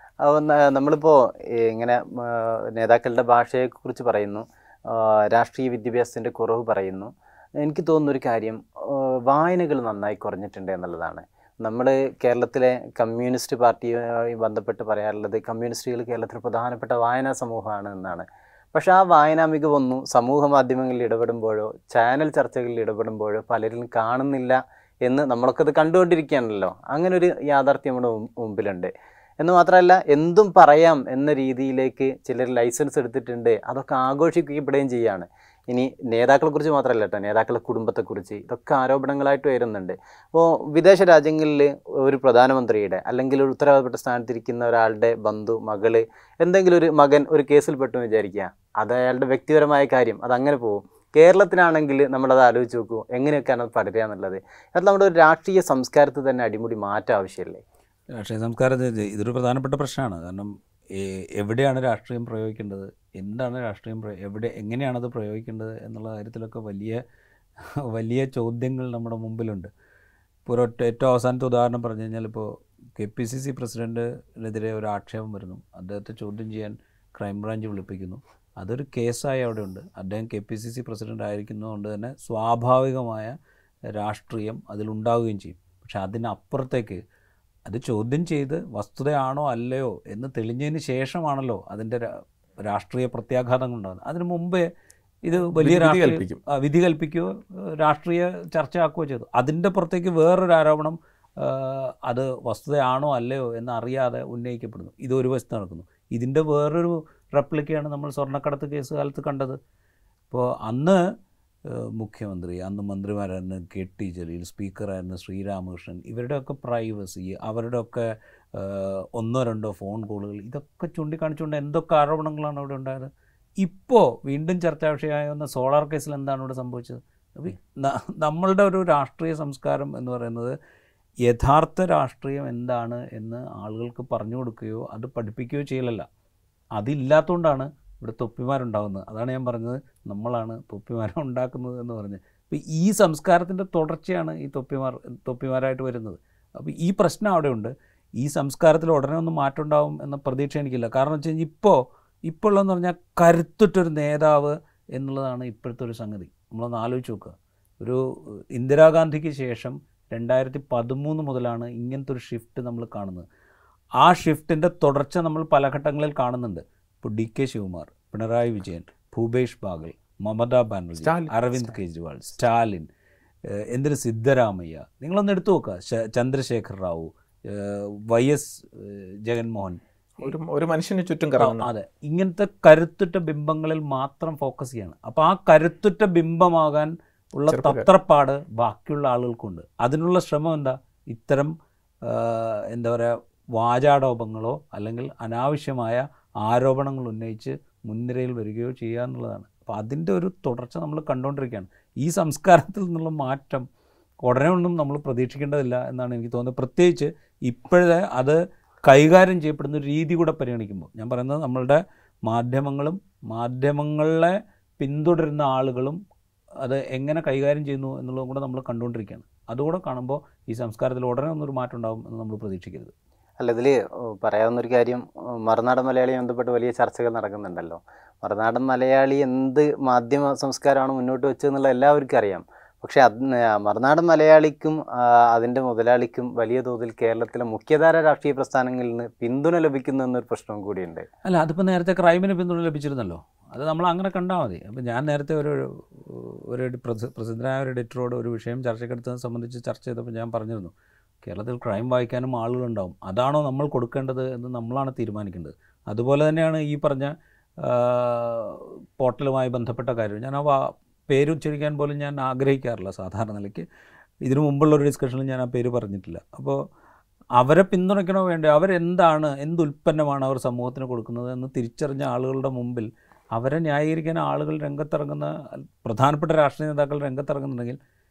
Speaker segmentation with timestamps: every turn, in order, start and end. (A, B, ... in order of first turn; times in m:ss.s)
0:00.2-0:57.6 A
0:58.2-1:07.0 B
1:07.9-1:09.7 B
1:10.4-1:23.3 B
1:24.0-1:27.0 B
1:27.7-1:32.1 B
1:32.7-1:34.7 B
1:35.2-1:49.6 B
1:35.4-1:36.4 C
1:50.3-1:51.0 B
1:51.7-2:10.5 B
2:11.3-2:16.0 B
2:16.8-2:38.0 B
2:38.5-2:43.2 B
2:44.0-2:52.9 B
2:51.0-2:51.7 C
2:53.5-3:00.3 B
3:00.2-3:01.6 C
3:01.4-3:11.5 B
3:07.5-3:07.8 C
3:12.0-3:23.6 B
3:24.2-3:36.0 B
3:36.6-3:42.9 B
3:43.4-4:01.1 A
4:01.2-4:10.7 B
4:11.2-4:23.6 B
4:24.2-4:26.6 B
4:27.4-4:37.8 B